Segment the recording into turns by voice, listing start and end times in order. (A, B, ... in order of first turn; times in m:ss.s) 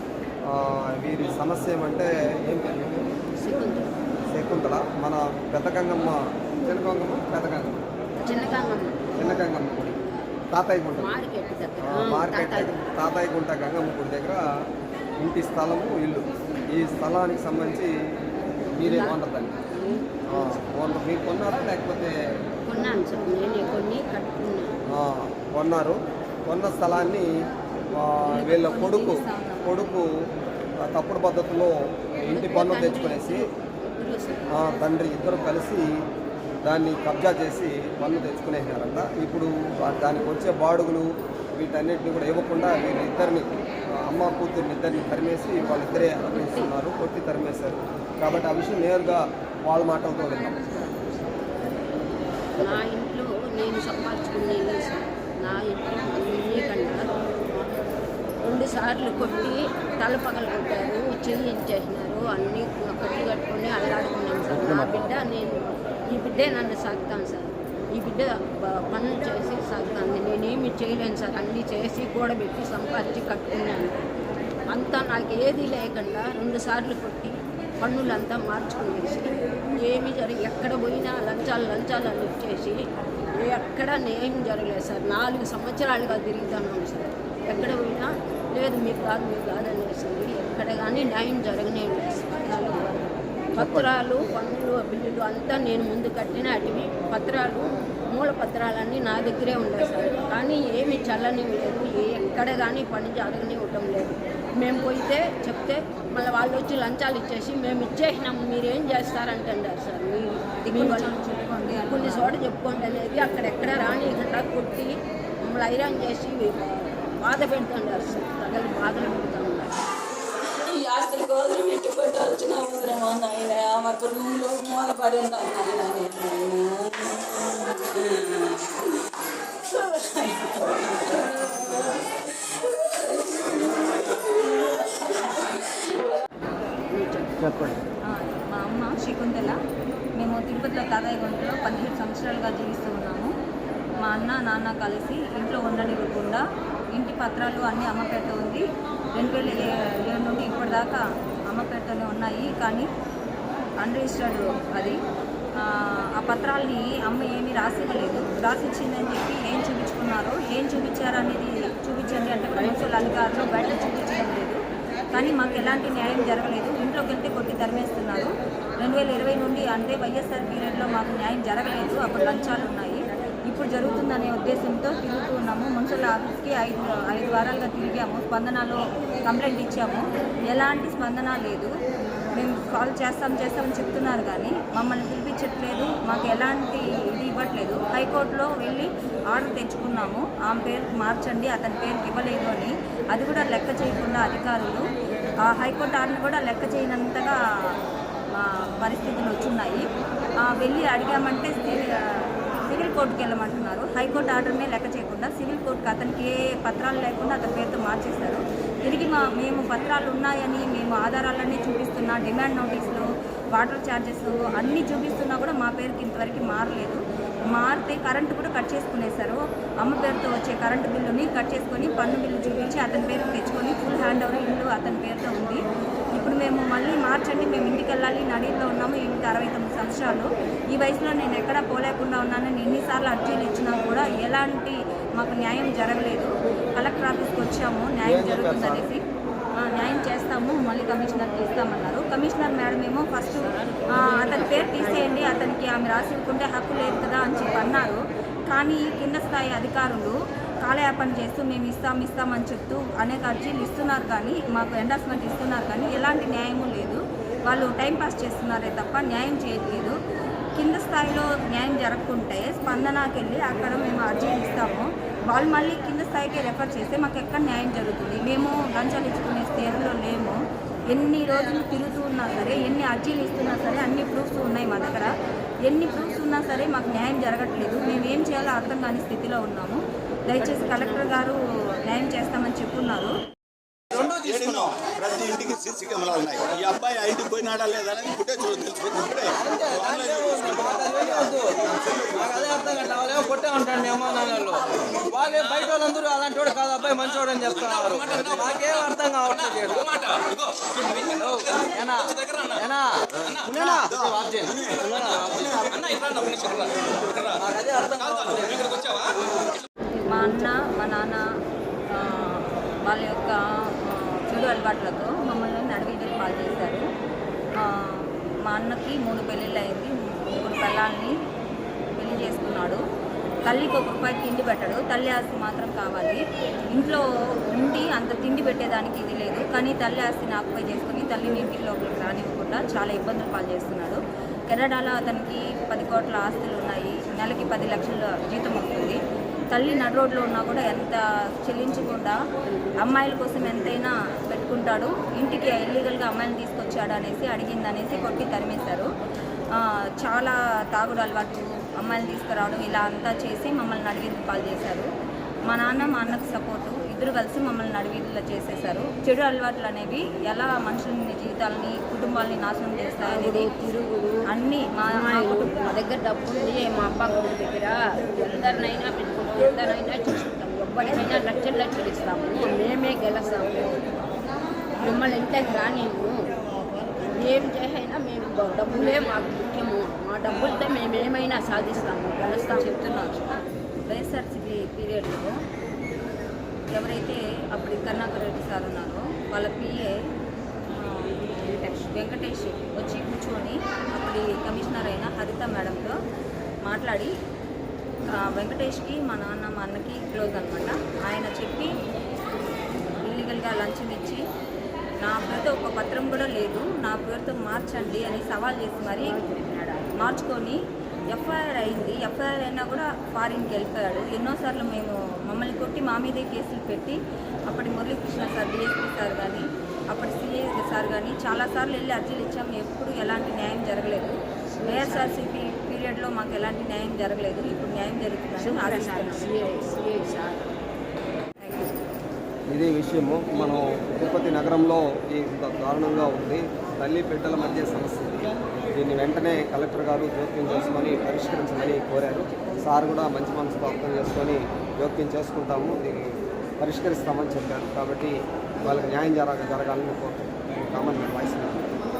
0:00.4-0:03.1 A
0:03.4-0:04.0 B
0:04.3-0:07.8 A
0:08.2-0:09.1 B
0:09.2-0:11.1 A
0:11.0-0:12.9 B
0:11.8-0:14.4 A
0:15.2-0:17.9 A
0:18.8-0:19.6 A
0:18.8-0:19.2 B
0:19.7-0:20.6 B
0:20.3-0:22.1 A
0:22.6-0:24.7 B
0:24.9-0:26.0 A
0:26.5-0:27.3 A
0:27.9-0:30.0 A
0:28.3-0:29.9 C
0:30.9-0:31.7 A
0:32.2-0:33.4 A
0:32.3-0:34.4 B
0:34.5-0:35.9 A
0:36.6-0:50.6 A
0:46.3-0:46.7 B
0:50.6-0:51.7 B
0:52.5-0:52.8 A
0:52.5-0:57.8 B
0:58.4-1:14.0 B
1:14.7-1:22.8 B
1:23.4-1:51.1 B
1:33.6-1:33.9 A
1:50.6-1:52.4 C
1:51.8-1:59.7 B
2:00.6-2:08.9 D
2:09.7-2:12.0 D
2:12.8-2:15.8 D
2:16.9-2:17.8 B
2:18.0-2:19.6 C
2:20.2-2:23.3 C
2:24.0-2:26.4 C
2:26.9-2:32.9 C
2:33.8-2:35.0 C
2:35.6-2:44.6 C
2:42.9-2:43.6 B
2:45.1-3:01.7 C
3:02.3-3:14.8 C
3:15.4-3:17.7 C
3:18.3-3:19.8 C
3:20.4-3:59.0 C
3:58.0-3:58.9 A
3:59.6-4:20.0 C
4:03.4-4:05.2 B
4:20.6-4:30.4 C
4:30.9-4:35.1 C
4:35.7-4:43.1 C
4:40.4-4:41.2 B
4:44.0-4:44.5 E
4:44.0-4:51.0 F
4:49.4-4:51.6 E
4:51.6-4:52.5 F
4:52.2-5:00.1 E
5:00.8-5:05.9 E
5:03.8-5:06.8 F
5:07.2-5:08.7 E
5:09.9-5:10.6 B
5:10.1-5:11.2 C
5:11.9-5:16.8 C
5:17.6-5:21.1 C
5:22.0-5:22.8 C
5:23.4-5:26.2 C
5:26.7-5:39.0 C
5:39.5-5:42.2 C
5:42.5-5:42.8 B
5:42.8-5:48.9 C
5:49.5-5:54.9 C
5:55.5-6:03.5 C
6:03.0-6:04.3 B
6:04.3-6:05.5 C
6:04.9-6:13.8 B
6:14.8-6:16.3 B
6:17.2-6:22.7 B
6:22.6-6:23.2 C
6:23.8-6:25.4 C
6:26.7-6:29.9 C
6:30.7-6:35.9 C
6:36.6-6:37.1 C
6:38.2-6:41.7 C
6:43.0-6:44.2 C
6:45.0-6:49.2 C
6:49.0-6:50.2 B
6:50.0-6:50.6 C
6:51.1-6:57.0 C
6:57.5-7:09.3 C
7:04.5-7:05.2 B
7:08.4-7:10.5 B
7:11.4-7:11.8 C
7:12.5-7:31.7 A